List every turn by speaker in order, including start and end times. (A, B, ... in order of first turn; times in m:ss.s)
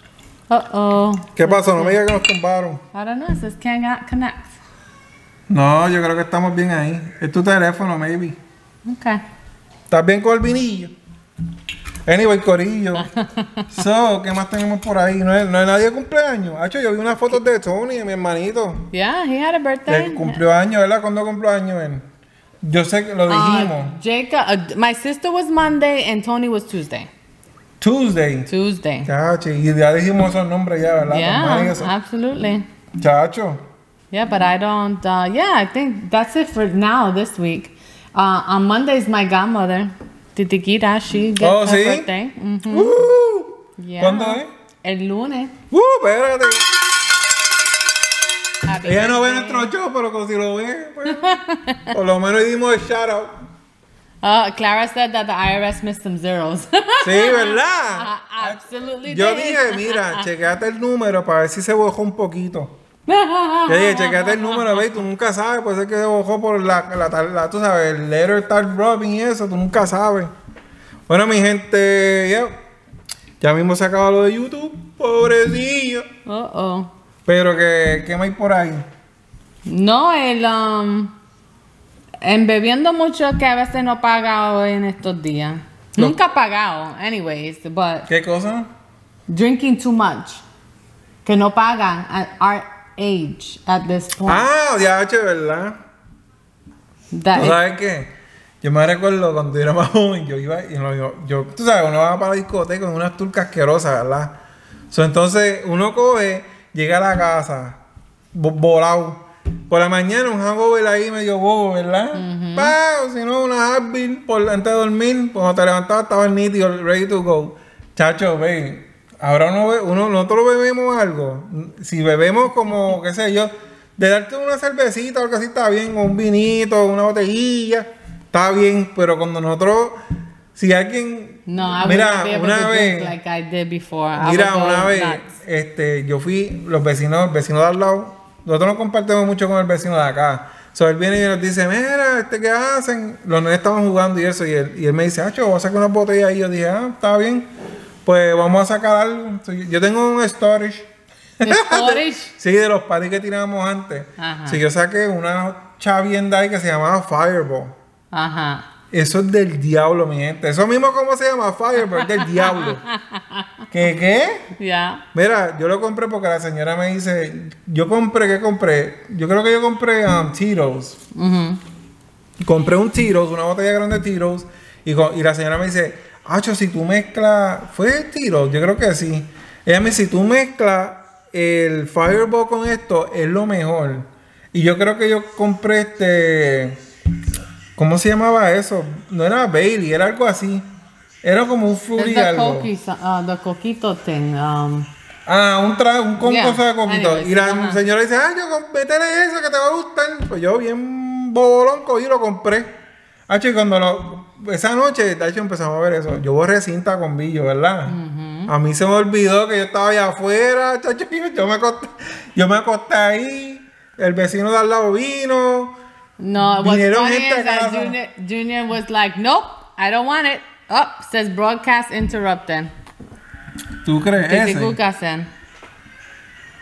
0:00.5-0:02.0 A
0:01.4-0:02.8 B
0:02.9-0:04.5 A
0:05.5-0:08.4 B
0:08.8-0:09.2 A
0:09.9-0:10.9 B
0:12.0-0:13.1 B
0:13.2-0:13.6 A
0:13.7-0:18.9 B
0:18.9-0:20.4 A
0:19.9-0:22.0 B
0:22.6-0:23.9 B
0:23.3-0:27.1 A
0:27.8-0:28.5 B
0:28.5-0:29.1 A
0:29.0-0:31.9 B
0:31.1-0:32.7 A
0:33.0-0:33.6 B
0:34.1-0:43.0 A
0:41.4-0:42.1 B
0:42.7-0:44.5 B
0:43.8-0:45.5 A
0:45.7-0:46.6 B
0:48.6-0:49.7 A
0:48.8-0:53.4 B
0:51.1-0:51.9 A
0:54.2-1:00.3 A
0:57.0-1:02.7 B
1:03.1-1:04.9 A
1:03.7-1:10.3 B
1:11.1-1:12.5 B
1:13.4-1:16.1 B
1:16.2-1:16.9 A
1:17.2-1:18.8 B
1:19.6-1:21.1 A
1:22.2-1:28.1 A
1:28.1-1:28.7 B
1:29.3-1:30.4 A
1:31.2-1:34.4 A
1:34.2-1:35.8 B
1:37.1-1:37.6 A
1:37.3-1:44.3 B
1:44.9-1:47.8 B
1:48.3-2:10.0 B
1:52.1-1:52.8 A
2:10.5-2:13.1 B
2:11.5-2:15.3 A
2:14.2-2:27.5 B
2:28.0-2:30.9 B
2:31.4-2:37.8 B
2:31.4-2:32.3 A
2:34.2-2:34.6 A
2:38.1-2:38.6 A
2:38.9-2:42.8 B
2:41.9-2:43.6 A
2:43.7-2:44.5 B
2:44.6-2:45.0 A
2:45.1-2:51.0 B
2:51.1-2:51.6 A
2:52.4-3:06.8 B
3:07.8-3:10.6 B
3:11.2-3:12.7 B
3:12.0-3:14.9 A
3:15.2-3:22.7 B
3:16.2-3:17.8 A
3:23.3-3:35.7 B
3:27.8-3:28.5 A
3:36.2-3:42.7 A
3:36.4-3:37.9 B
3:43.8-3:44.8 B
3:44.3-3:45.3 A